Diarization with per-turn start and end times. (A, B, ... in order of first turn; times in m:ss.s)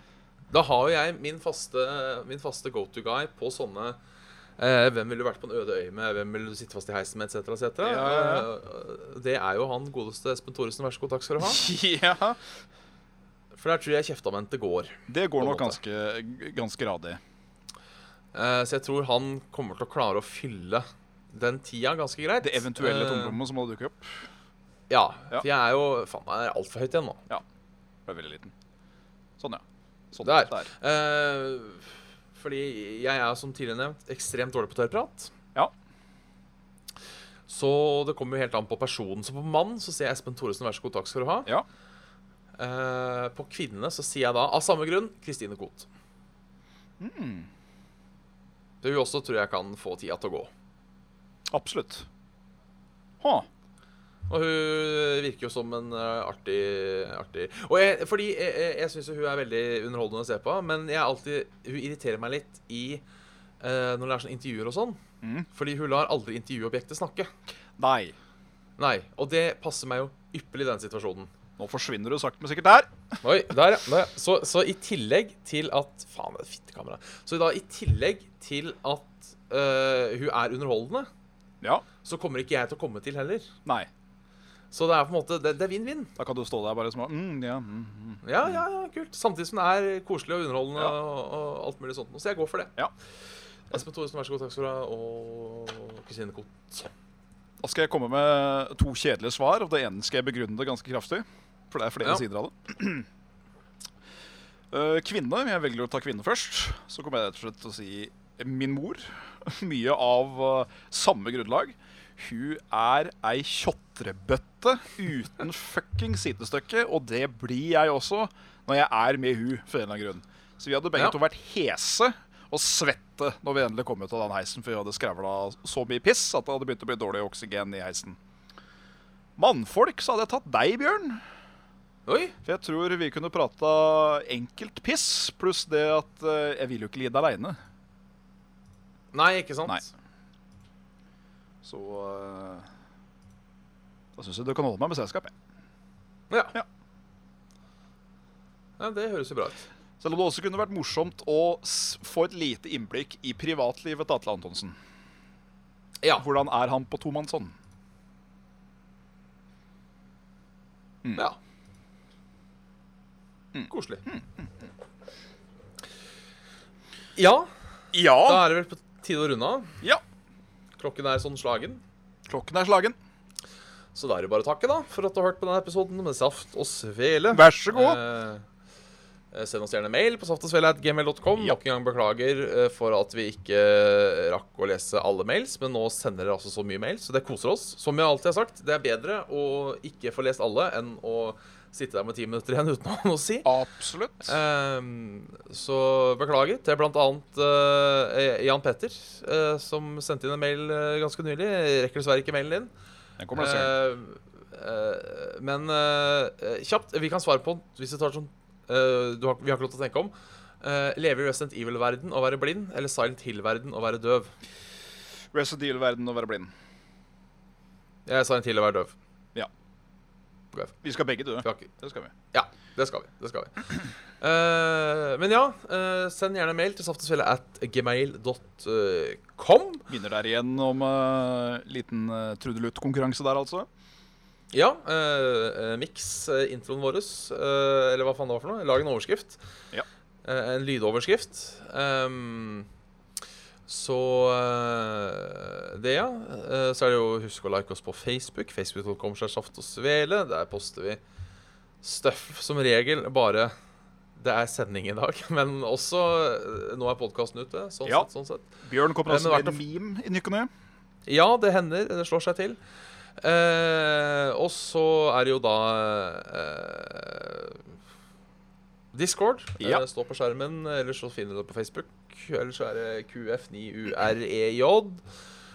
0:00.5-0:04.0 A
0:04.6-0:11.6 A
0:07.8-0:08.5 B
0:11.4-0:12.4 B
0:13.5-0:15.8 A
0:15.1-0:17.2 B
0:18.3-0:23.4 A
0:22.4-0:24.3 B
0:24.9-0:27.2 A
0:28.1-0:28.5 B
0:29.4-0:30.7 B
0:30.2-0:35.3 A
0:37.5-0:41.5 A
0:42.6-0:45.9 A
0:47.0-0:47.5 B
0:48.8-0:50.5 A
0:51.5-0:52.1 B
0:53.2-0:53.5 B
0:54.3-1:03.0 A
1:03.6-1:05.0 A
1:05.2-1:05.5 B
1:05.5-1:07.3 A
1:07.8-1:08.1 B
1:08.8-1:11.3 A
1:11.6-1:12.9 B
1:13.2-1:21.1 A
1:22.0-1:23.5 A
1:24.7-1:26.1 A
1:26.2-1:28.6 B
1:28.2-1:32.7 A
1:33.7-1:36.9 A
1:37.6-1:43.1 B
1:44.7-2:08.2 B
2:09.4-2:11.2 B
2:12.0-2:12.4 A
2:12.4-2:17.6 B
2:19.1-2:19.9 A
2:21.6-2:22.7 B
2:24.2-2:25.3 B
2:26.3-2:26.5 A
2:28.8-2:29.6 A
2:30.0-2:34.8 B
2:36.2-2:37.5 B
2:43.5-2:44.5 B
2:43.7-2:44.0 A
2:47.2-2:47.5 A
2:47.9-2:48.4 B
2:48.2-2:49.7 A
2:50.8-2:51.8 A
2:52.3-2:53.0 B
2:53.9-2:58.4 A
2:57.3-2:58.0 B
2:59.3-3:13.5 A
3:13.4-3:14.4 B
3:14.2-3:22.7 A
3:23.2-3:23.7 B
3:23.3-3:34.3 A
3:35.3-3:36.5 B
3:38.0-3:38.9 A
3:40.8-3:42.1 B
3:41.4-3:41.7 A
3:42.3-3:49.8 A
3:49.9-3:53.7 B
3:54.5-3:59.4 A
4:00.2-4:02.7 A
4:03.7-4:11.0 A
4:11.8-4:13.5 A
4:14.2-4:18.5 A
4:18.6-4:20.5 B
4:19.0-4:19.6 A
4:21.0-4:22.6 A
4:23.2-4:27.6 A
4:28.9-4:35.0 A